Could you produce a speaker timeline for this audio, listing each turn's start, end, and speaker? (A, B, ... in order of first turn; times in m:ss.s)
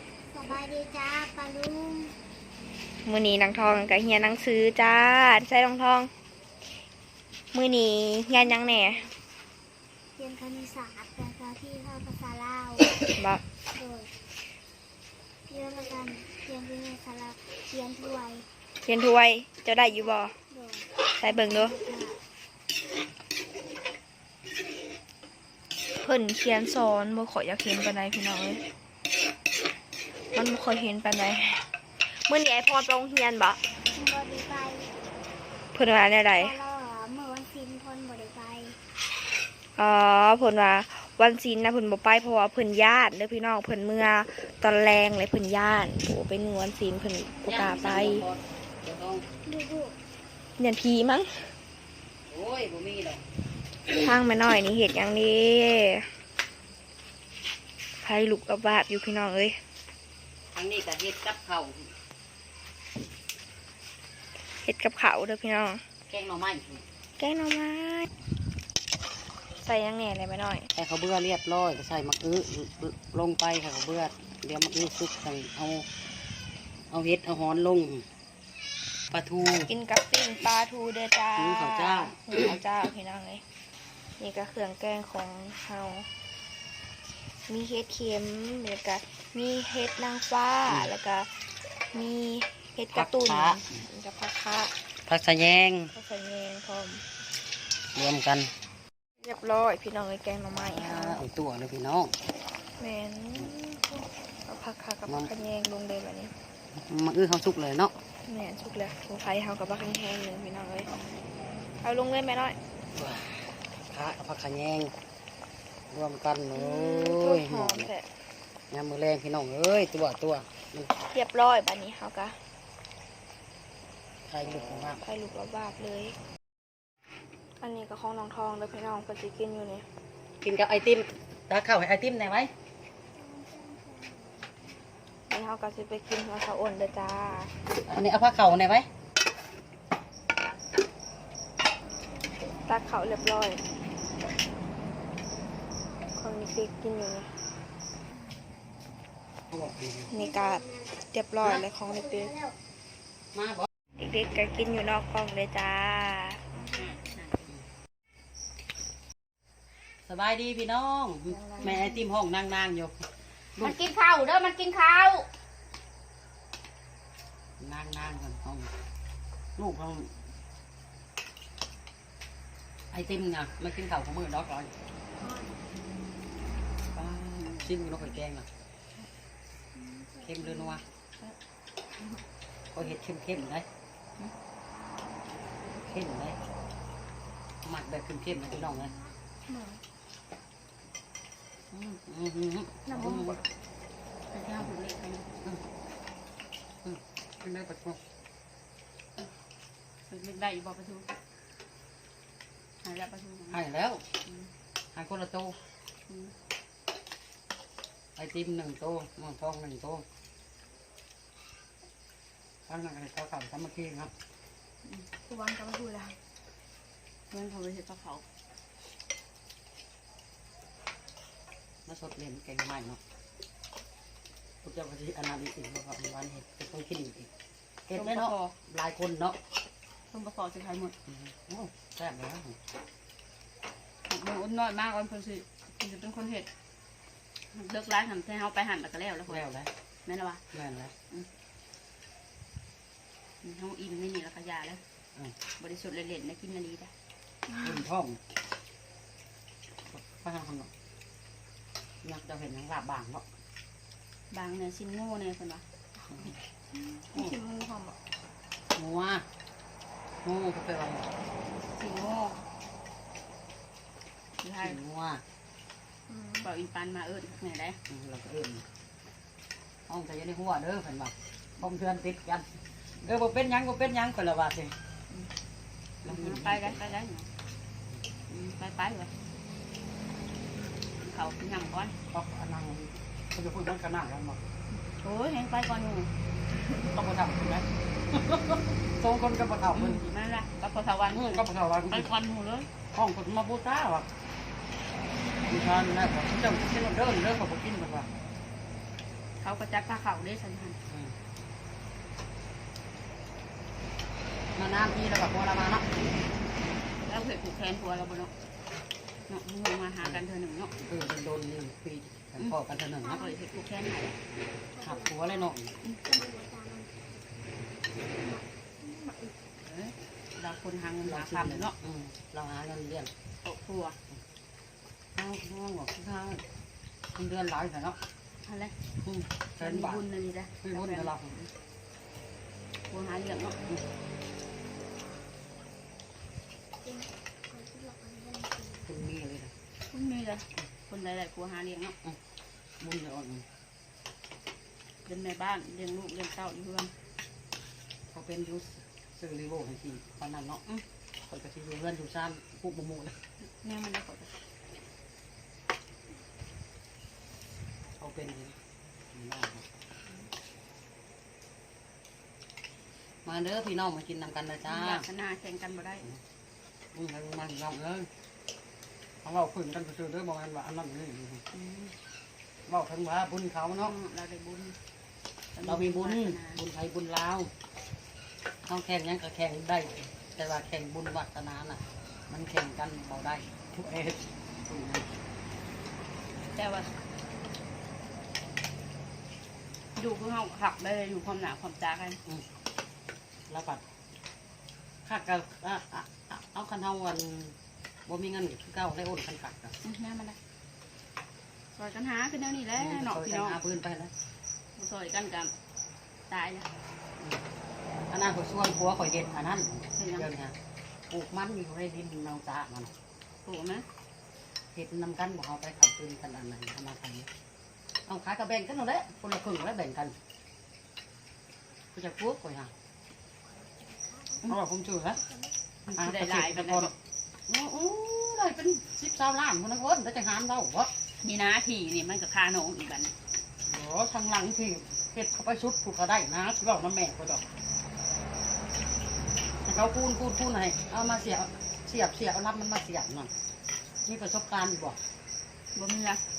0:00.3-0:02.2 A
0:03.0-0:06.1 B
0:07.5-0:09.1 B
0:08.3-0:09.1 A
0:10.2-0:13.0 A
0:13.1-0:13.4 B
0:13.7-0:14.1 A
0:15.5-0:18.5 A
0:18.8-0:20.3 B
0:19.8-0:22.2 A
0:21.2-0:21.8 B
0:26.0-0:28.6 B
0:30.3-0:33.6 B
0:33.8-0:34.9 A
0:35.7-0:36.6 B
0:36.3-0:38.8 A
0:39.8-0:48.3 B
0:47.5-0:49.3 C
0:49.5-0:50.0 A
0:50.6-0:51.5 B
0:52.3-0:53.2 C
0:54.0-0:56.1 B
0:58.0-0:59.6 B
1:00.5-1:01.9 C
1:04.6-1:05.8 B
1:06.1-1:06.8 C
1:07.2-1:08.1 B
1:09.6-1:10.7 B
1:10.7-1:15.9 C
1:16.9-1:18.1 C
1:19.1-1:19.7 C
1:19.7-1:23.4 B
1:21.4-1:22.3 C
1:24.2-1:26.1 B
1:27.5-1:31.4 B
1:30.7-1:30.9 C
1:31.9-1:34.7 B
1:32.9-1:33.6 C
1:35.0-1:35.9 C
1:35.9-1:37.0 B
1:38.0-1:38.5 C
1:39.2-1:41.2 B
1:40.5-1:42.2 C
1:42.8-1:46.3 B
1:45.1-1:45.3 C
1:46.8-1:47.9 C
1:48.3-1:50.9 B
1:51.8-1:52.6 B
1:52.9-1:54.9 C
1:55.9-1:57.9 C
1:56.5-1:58.1 B
1:58.7-2:00.9 C
2:01.1-2:02.4 B
2:04.2-2:05.0 C
2:04.4-2:06.2 B
2:07.6-2:09.9 B
2:10.4-2:12.5 C
2:13.1-2:14.6 A
2:15.3-2:17.5 B
2:17.9-2:18.9 C
2:22.7-2:23.6 B
2:26.2-2:27.3 B
2:29.5-2:30.1 C
2:30.1-2:32.3 B
2:30.1-2:30.9 A
2:31.9-2:32.6 A
2:33.3-2:33.7 C
2:34.0-2:36.6 B
2:36.7-2:37.5 D
2:40.1-2:43.8 C
2:41.3-2:42.0 B
2:43.6-2:45.3 D
2:47.6-2:48.7 C
2:49.6-2:50.1 C
2:52.9-2:54.7 C
2:55.2-2:55.6 A
2:56.9-2:58.5 C
2:59.8-3:00.4 A
3:00.2-3:00.8 C
3:02.7-3:03.7 C
3:05.8-3:06.4 C
3:07.6-3:08.9 C
3:09.5-3:09.8 B
3:11.7-3:13.4 C
3:12.9-3:13.4 B
3:14.3-3:15.3 D
3:16.8-3:18.0 C
3:20.1-3:21.1 D
3:22.8-3:23.6 D
3:23.5-3:24.1 C
3:24.9-3:25.6 C
3:26.1-3:26.3 D
3:28.2-3:30.0 C
3:32.7-3:34.1 C
3:34.8-3:35.1 D
3:35.3-3:36.2 B
3:37.3-3:38.2 D
3:41.9-3:43.0 C
3:44.6-3:47.3 C
3:47.9-3:49.4 C
3:47.9-3:48.6 D
3:50.1-3:51.0 D
3:51.1-3:52.6 C
3:54.1-3:56.5 D
3:57.5-3:59.4 D
3:59.3-3:59.7 C
4:00.1-4:00.4 D
4:00.5-4:01.0 C
4:03.4-4:04.8 D
4:05.6-4:06.9 D
4:07.5-4:07.8 B
4:07.6-4:08.2 C
4:09.9-4:10.7 C
4:12.0-4:13.2 C
4:14.3-4:15.6 D
4:16.8-4:18.0 B
4:18.8-4:19.3 C
4:20.2-4:21.1 C
4:21.7-4:22.4 D
4:24.4-4:24.8 D
4:24.6-4:25.2 C
4:26.1-4:26.5 B
4:26.4-4:27.8 D
4:27.9-4:28.6 C
4:29.9-4:34.8 C
4:36.0-4:36.8 C
4:36.0-4:37.3 D
4:38.3-4:39.1 D
4:41.0-4:42.0 D
4:42.1-4:44.4 C
4:44.7-4:46.1 D
4:46.7-4:50.0 C
4:49.7-4:52.7 D
4:51.1-4:52.1 C
4:52.9-4:54.1 C
4:55.4-4:58.1 C
4:59.4-5:00.8 D
5:00.9-5:01.2 C
5:04.6-5:06.0 C
5:07.1-5:08.3 D
5:09.3-5:10.7 D
5:10.8-5:13.3 C
5:13.0-5:13.4 A
5:13.2-5:14.2 D
5:14.7-5:15.5 A
5:14.8-5:15.8 C
5:16.0-5:17.2 A
5:18.2-5:19.3 A
5:19.6-5:21.8 D
5:21.0-5:23.1 C
5:23.4-5:24.0 D
5:25.2-5:26.4 C
5:27.2-5:28.0 C
5:28.4-5:28.7 D
5:29.0-5:30.0 C
5:29.6-5:31.1 D
5:30.6-5:31.5 C
5:32.9-5:33.6 D
5:36.8-5:38.9 A
5:38.8-5:39.5 C
5:39.9-5:42.0 D
5:42.8-5:43.5 C
5:45.0-5:47.0 D
5:48.1-5:53.1 C
5:53.4-5:54.3 D
5:58.0-5:58.6 C
5:59.1-5:59.7 C
6:03.2-6:05.1 C
6:04.7-6:06.1 D
6:06.9-6:08.1 C
6:09.2-6:11.4 C
6:11.5-6:12.0 D
6:12.7-6:14.0 C
6:13.8-6:14.8 D
6:15.5-6:16.6 D
6:15.6-6:17.5 C
6:18.7-6:25.1 C
6:26.5-6:27.0 D
6:30.0-6:32.2 D
6:33.5-6:33.8 C
6:35.1-6:37.6 C
6:38.1-6:39.8 C
6:39.8-6:40.4 D
6:41.8-6:43.6 D
6:42.8-6:44.1 C
6:44.8-6:45.5 D
6:46.3-6:46.7 D
6:47.2-6:47.4 C
6:48.1-6:50.6 C
6:50.0-6:50.3 D
6:51.1-6:52.9 C
6:53.4-6:53.9 D
6:54.7-6:57.3 C
6:58.1-7:00.2 C
7:01.9-7:02.7 C
7:03.9-7:04.4 A
7:04.5-7:05.2 C
7:05.9-7:06.9 D
7:05.9-7:06.9 C
7:07.5-7:10.9 C
7:11.2-7:13.1 D
7:13.7-7:17.4 C
7:19.6-7:23.3 C
7:24.1-7:25.0 C
7:25.8-7:26.2 D